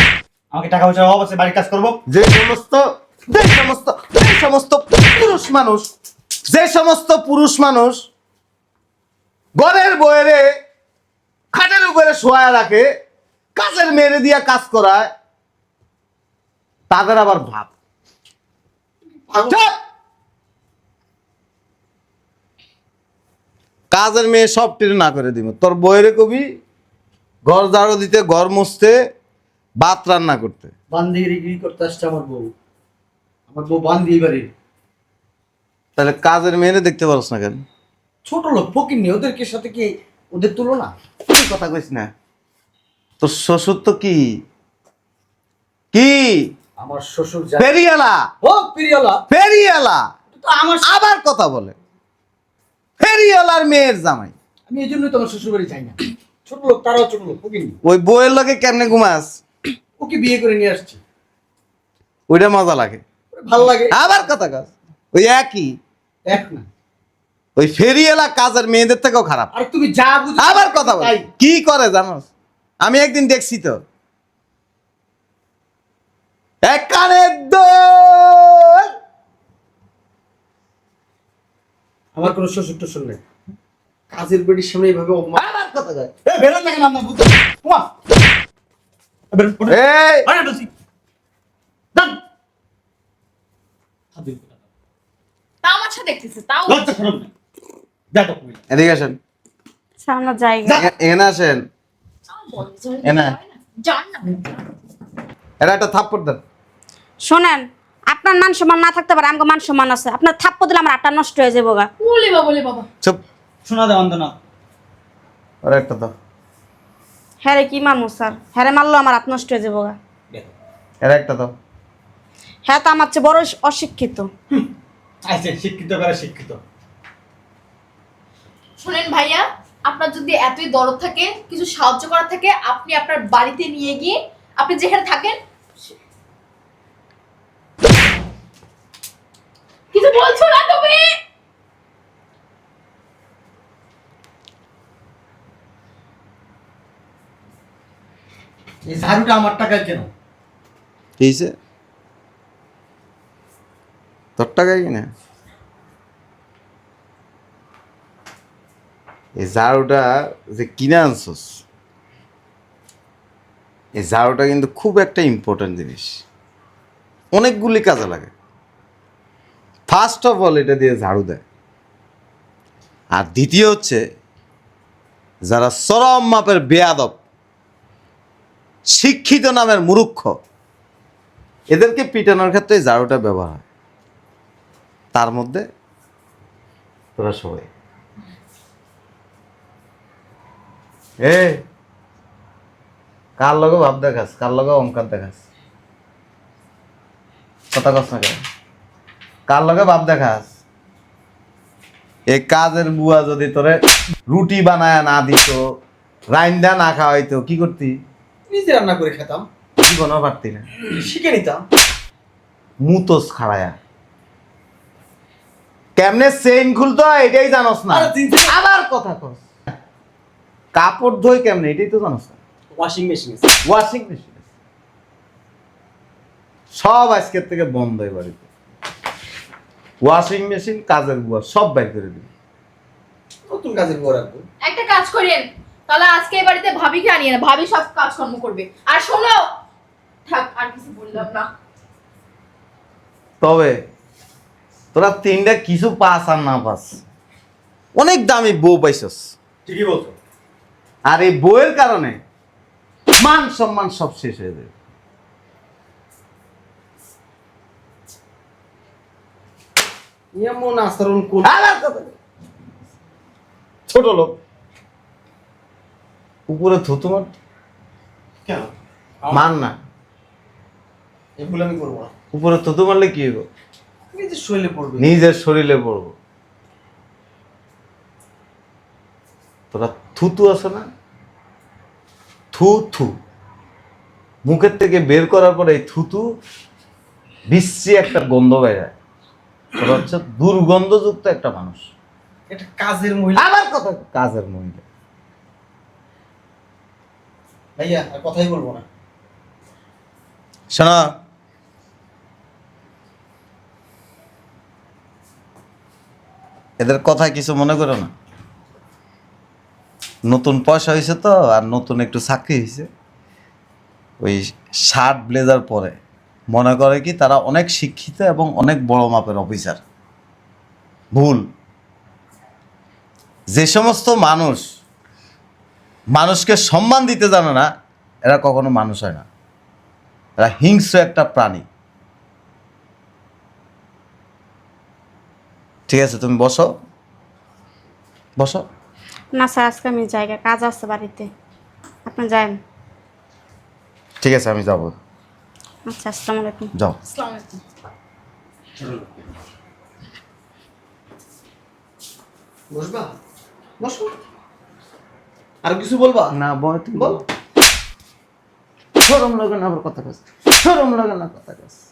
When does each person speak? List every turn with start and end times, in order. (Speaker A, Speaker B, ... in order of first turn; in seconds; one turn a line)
Speaker A: 0.5-2.0
Speaker B: 2.1-5.9
Speaker B: 6.5-8.1
Speaker B: 9.6-10.5
Speaker B: 11.5-12.9
Speaker B: 13.5-15.1
Speaker B: 16.9-17.7
Speaker C: 19.3-19.6
Speaker B: 19.5-19.8
Speaker B: 23.9-26.4
Speaker B: 27.4-29.0
Speaker B: 29.8-30.7
Speaker C: 30.9-32.5
Speaker C: 33.5-34.5
Speaker B: 36.0-37.6
Speaker C: 38.2-40.9
Speaker B: 41.3-42.1
Speaker B: 43.2-44.4
Speaker B: 45.9-46.5
Speaker C: 46.8-47.8
Speaker B: 47.6-48.3
Speaker C: 48.4-49.2
Speaker B: 49.3-50.1
Speaker C: 50.3-50.9
Speaker B: 50.8-51.8
Speaker B: 53.0-54.3
Speaker C: 54.7-57.8
Speaker B: 57.8-59.4
Speaker C: 60.0-61.0
Speaker B: 62.3-63.0
Speaker C: 63.3-64.3
Speaker B: 63.9-65.8
Speaker C: 66.2-66.7
Speaker B: 67.6-69.5
Speaker C: 69.5-71.2
Speaker B: 70.4-72.3
Speaker B: 72.8-73.8
Speaker B: 76.6-78.9
Speaker C: 82.1-83.2
Speaker C: 84.1-85.4
Speaker B: 85.3-86.1
Speaker A: 86.2-87.9
Speaker A: 89.3-90.7
Speaker B: 89.7-90.3
Speaker A: 94.1-94.5
Speaker D: 95.6-96.9
Speaker A: 96.7-97.3
Speaker A: 98.1-98.6
Speaker B: 98.7-99.2
Speaker E: 100.0-100.9
Speaker B: 100.7-101.6
Speaker D: 102.3-104.6
Speaker B: 103.0-103.3
Speaker B: 105.6-106.4
Speaker E: 107.2-111.9
Speaker D: 112.0-112.9
Speaker A: 113.6-114.3
Speaker B: 115.6-116.1
Speaker E: 117.4-120.0
Speaker B: 121.0-121.5
Speaker E: 122.7-124.3
Speaker A: 125.2-126.6
Speaker D: 128.8-135.4
Speaker D: 139.9-141.1
Speaker C: 148.8-150.1
Speaker B: 151.2-151.5
Speaker B: 154.4-155.1
Speaker B: 159.3-161.6
Speaker B: 164.0-166.2
Speaker B: 167.3-168.3
Speaker B: 169.9-171.4
Speaker B: 173.1-174.0
Speaker B: 175.4-177.2
Speaker B: 178.9-180.4
Speaker B: 181.7-183.6
Speaker B: 185.1-185.7
Speaker B: 187.2-187.7
Speaker B: 191.2-191.6
Speaker B: 193.4-195.4
Speaker B: 197.7-198.4
Speaker B: 199.5-200.5
Speaker B: 202.3-205.6
Speaker B: 206.3-208.0
Speaker C: 208.5-209.4
Speaker B: 209.8-210.7
Speaker C: 210.9-211.6
Speaker B: 212.8-213.8
Speaker B: 215.9-219.4
Speaker C: 217.9-218.6
Speaker B: 220.7-222.3
Speaker C: 222.7-223.5
Speaker B: 223.6-224.4
Speaker B: 226.7-228.4
Speaker B: 230.0-232.3
Speaker C: 233.5-234.4
Speaker D: 234.6-239.5
Speaker D: 240.3-241.5
Speaker B: 243.4-243.8
Speaker B: 244.9-247.0
Speaker B: 247.9-249.3
Speaker A: 249.7-250.1
Speaker B: 251.1-252.2
Speaker B: 253.2-254.7
Speaker C: 260.3-261.6
Speaker B: 261.4-262.1
Speaker B: 263.9-264.3
Speaker B: 266.5-267.3
Speaker B: 269.3-269.8
Speaker C: 271.4-272.1
Speaker B: 272.3-273.5
Speaker C: 274.1-275.1
Speaker B: 275.0-276.1
Speaker B: 279.7-280.9
Speaker B: 282.5-283.1
Speaker B: 284.4-286.3
Speaker B: 287.5-288.9
Speaker B: 289.8-291.9
Speaker C: 292.5-293.5
Speaker B: 293.4-294.8
Speaker C: 297.8-298.8
Speaker B: 300.7-301.1
Speaker B: 306.8-308.1
Speaker B: 310.3-312.9
Speaker B: 314.2-316.0
Speaker B: 316.5-319.8
Speaker B: 321.1-321.4
Speaker B: 323.5-324.6
Speaker B: 326.1-327.7
Speaker B: 328.2-329.2
Speaker B: 330.4-331.6
Speaker B: 335.9-336.7
Speaker B: 338.4-338.6
Speaker E: 339.3-341.3
Speaker E: 342.1-342.6
Speaker B: 344.2-345.0
Speaker E: 345.9-346.7
Speaker D: 347.1-347.6
Speaker C: 348.8-349.1
Speaker C: 352.7-353.1
Speaker C: 353.8-354.2
Speaker C: 355.6-356.3
Speaker B: 356.3-357.2
Speaker C: 356.9-357.2
Speaker B: 359.0-361.8